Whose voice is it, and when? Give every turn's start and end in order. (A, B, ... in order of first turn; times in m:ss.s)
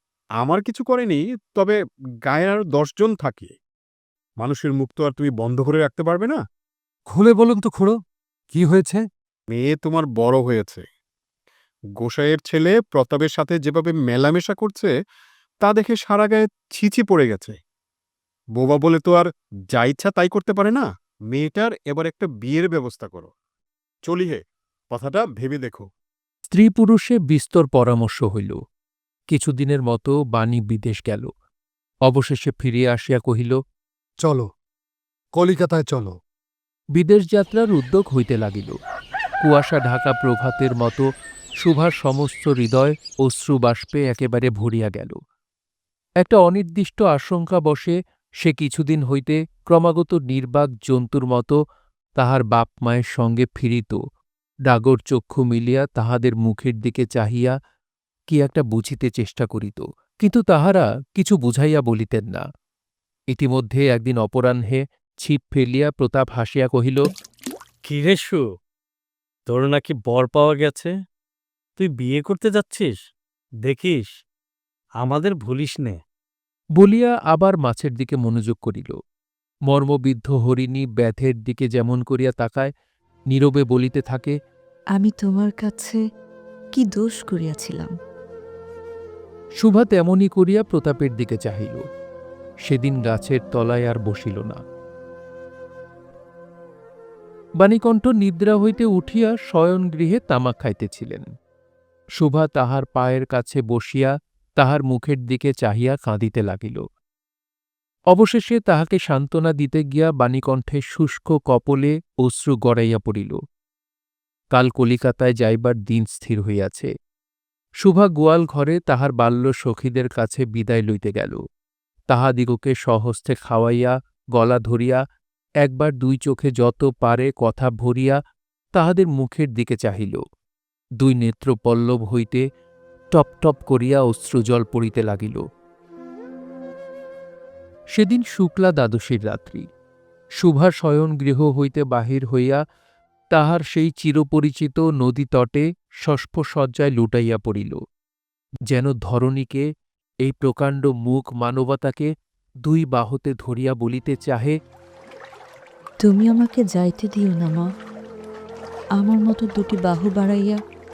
0:00.4-0:03.5 A
0:04.4-0:06.4 A
0:07.1-0:08.0 B
0:08.5-0:09.0 B
0:09.5-0:10.8 A
0:12.0-0:14.9 A
0:15.6-0:17.6 A
0:18.6-0:23.3 A
0:24.0-0:25.9 A
0:26.5-0:28.6 C
0:29.3-0:31.3 C
0:32.1-0:33.6 C
0:34.2-0:34.5 B
0:35.4-0:36.2 B
0:37.0-0:38.8 C
0:39.4-0:41.1 C
0:41.6-0:45.2 C
0:46.2-0:51.6 C
0:52.2-0:54.0 C
0:54.7-0:57.5 C
0:58.3-1:02.4 C
1:03.3-1:07.0 C
1:07.9-1:08.4 D
1:09.5-1:10.9 D
1:11.8-1:13.0 D
1:13.7-1:14.1 D
1:15.0-1:16.0 D
1:16.8-1:19.0 C
1:19.7-1:22.7 C
1:23.3-1:24.3 C
1:24.9-1:26.0 E
1:26.7-1:28.0 E
1:29.6-1:31.8 C
1:32.7-1:34.6 C
1:37.6-1:41.3 C
1:42.2-1:46.8 C
1:48.1-1:53.4 C
1:54.5-1:56.9 C
1:57.8-2:01.4 C
2:02.1-2:05.0 C
2:05.6-2:08.2 C
2:08.8-2:10.2 C
2:11.0-2:12.4 C
2:13.2-2:15.4 C
2:18.0-2:19.7 C
2:20.4-2:22.6 C
2:23.3-2:27.8 C
2:28.7-2:29.6 C
2:30.3-2:32.1 C
2:32.6-2:34.6 C
2:36.0-2:37.7 E
2:39.0-2:40.6 E